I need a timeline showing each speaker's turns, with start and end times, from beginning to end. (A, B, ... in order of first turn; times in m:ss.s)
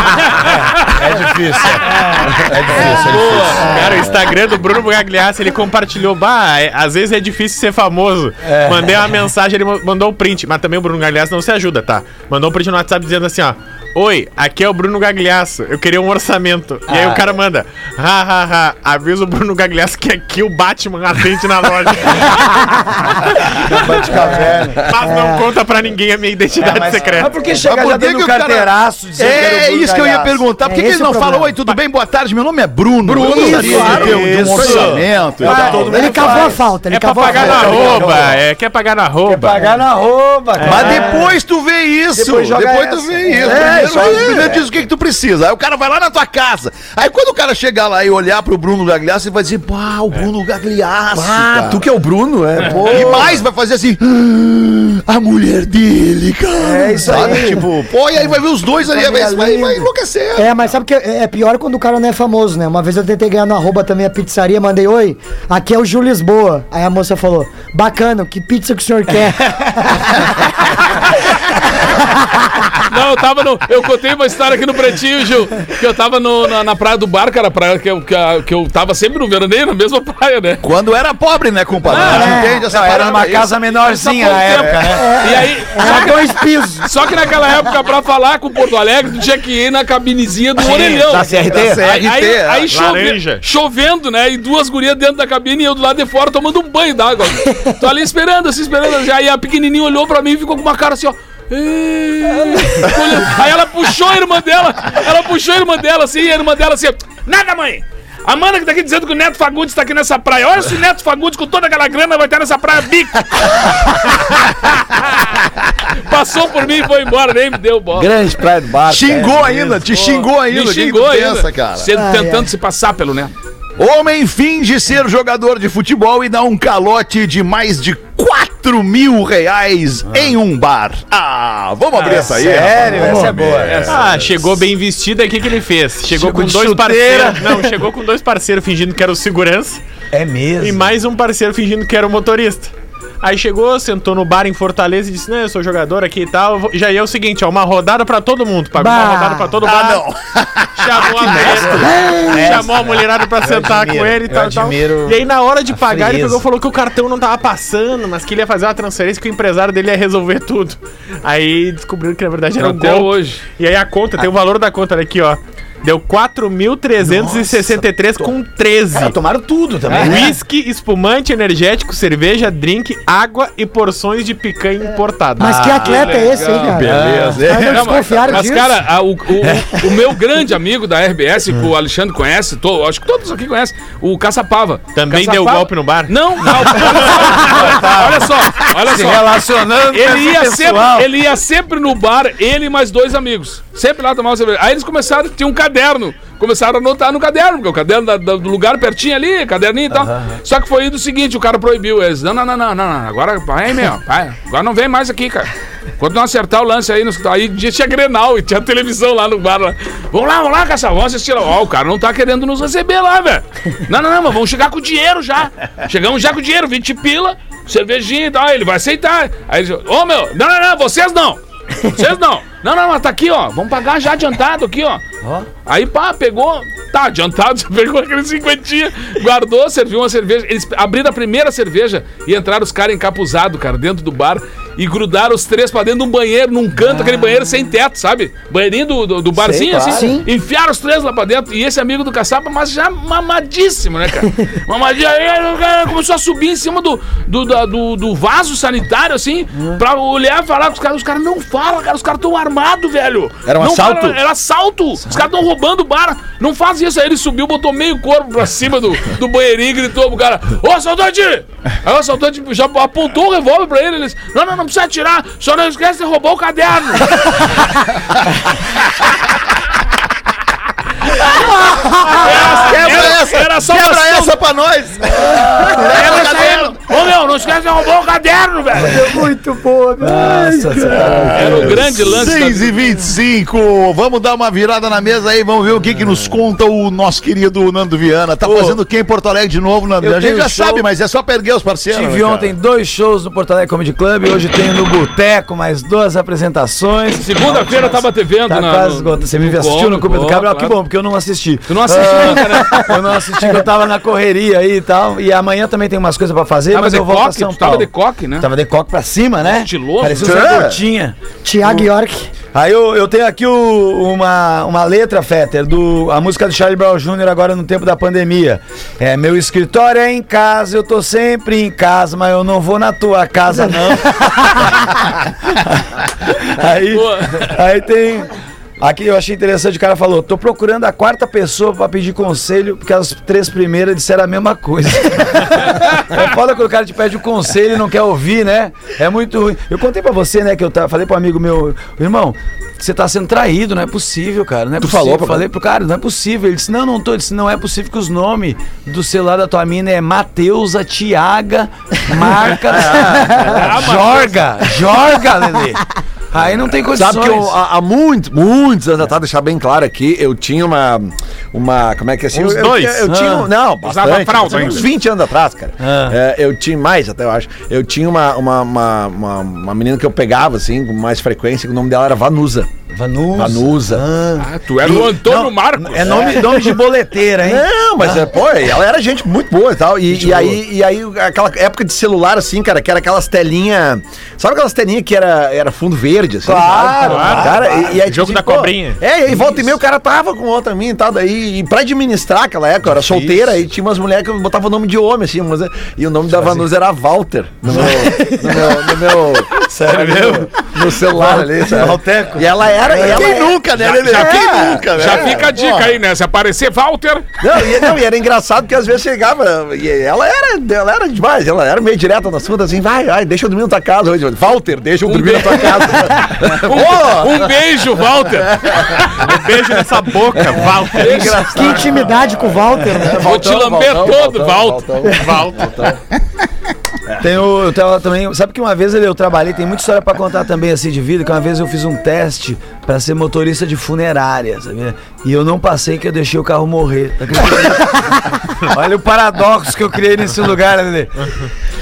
0:00.4-0:04.1 A
0:02.7-0:03.9 B
0:03.6-0:24.0 C
0:08.4-0:09.0 A
0:16.9-0:17.3 A
0:23.6-0:24.9 A
0:24.9-0:27.4 C
0:25.0-0:25.5 D
0:26.6-0:30.4 A
0:27.5-0:36.5 E
0:30.6-0:31.5 D
0:33.0-0:35.1 F
0:33.2-0:36.6 A
0:33.3-0:33.9 D
0:35.4-0:37.9 D
0:36.9-0:39.7 C
0:37.3-0:38.4 A
0:37.5-0:38.1 E
0:39.2-0:41.3 A
0:40.6-0:41.1 C
0:40.6-0:51.9 E
0:42.2-0:44.6 A
0:43.4-0:44.6 F
0:51.1-0:53.4 F
0:52.7-0:53.2 A
0:52.7-1:00.7 E
0:56.6-0:57.7 A
0:57.0-0:57.6 D
0:58.9-1:10.4 D
1:12.8-1:20.6 B
1:20.6-1:23.5 E
1:21.9-1:22.4 B
1:21.9-1:25.1 A
1:22.1-1:22.5 D
1:23.8-1:58.2 B
1:25.0-1:26.9 D
1:30.6-1:32.7 F
1:32.7-1:33.4 C
1:58.0-1:59.8 F
1:58.9-2:01.9 E
2:00.0-2:03.3 B
2:02.0-2:02.5 D
2:03.8-2:14.4 E
2:12.0-2:14.0 A
2:13.6-2:19.8 C
2:16.1-2:17.7 A
2:20.1-2:20.8 A
2:20.6-2:30.1 C
2:28.8-2:29.5 D
2:29.6-2:31.9 E
2:30.8-2:49.2 C
2:31.4-2:36.4 A
2:42.6-2:43.4 B
2:47.0-2:48.3 A
2:48.9-2:50.3 A
2:49.9-2:56.1 C
2:55.4-2:58.8 D
2:55.6-2:58.4 E
2:55.9-2:56.8 B
2:56.8-2:57.5 A
2:57.6-3:09.3 B
3:04.9-3:06.2 C
3:06.6-3:11.1 A
3:09.9-3:45.0 B
3:19.9-3:20.4 A
3:45.2-3:45.5 A
3:45.7-4:27.6 B
3:59.4-4:00.2 F
3:59.8-4:00.1 A
3:59.9-4:00.2 D
4:13.5-4:14.2 F
4:32.1-4:34.4 B
4:32.2-4:36.9 E
4:32.7-4:33.7 F
4:35.7-4:39.1 B
4:38.8-4:41.4 D
4:40.0-4:42.1 A
4:41.0-4:52.5 E
4:41.3-4:42.8 B
4:48.4-4:48.8 A
4:50.0-4:50.8 A
4:51.9-5:11.8 A
4:57.2-5:00.8 B
5:01.7-5:03.0 B
5:06.7-5:08.5 B
5:09.5-5:10.5 B
5:10.1-5:10.8 F
5:11.4-5:12.3 D
5:12.5-5:57.6 A
5:26.9-5:27.6 B
5:44.8-5:45.4 F
5:52.7-5:53.7 F
5:53.5-5:54.6 B
5:56.9-6:12.7 F
6:02.3-6:03.1 C
6:03.0-6:03.5 A
6:03.8-6:04.9 B
6:05.8-6:06.2 A
6:12.9-6:18.3 A
6:13.3-6:14.1 F
6:14.4-6:16.4 B
6:16.0-6:16.8 F
6:17.4-6:45.5 F
6:20.1-6:20.6 A
6:26.4-6:28.0 A
6:27.0-6:29.0 C
6:32.9-6:33.6 A
6:36.3-6:36.6 A
6:37.7-6:38.2 A
6:39.5-6:43.3 A
6:42.9-6:46.0 E
6:43.8-6:47.3 B
6:47.4-6:57.5 F
6:55.0-6:59.2 B
6:58.6-6:59.3 F
6:59.2-7:01.7 C
7:00.9-7:01.9 B
7:00.9-7:06.0 F
7:01.4-7:03.3 D
7:03.2-7:04.9 B
7:05.1-7:05.8 C
7:07.2-7:21.4 A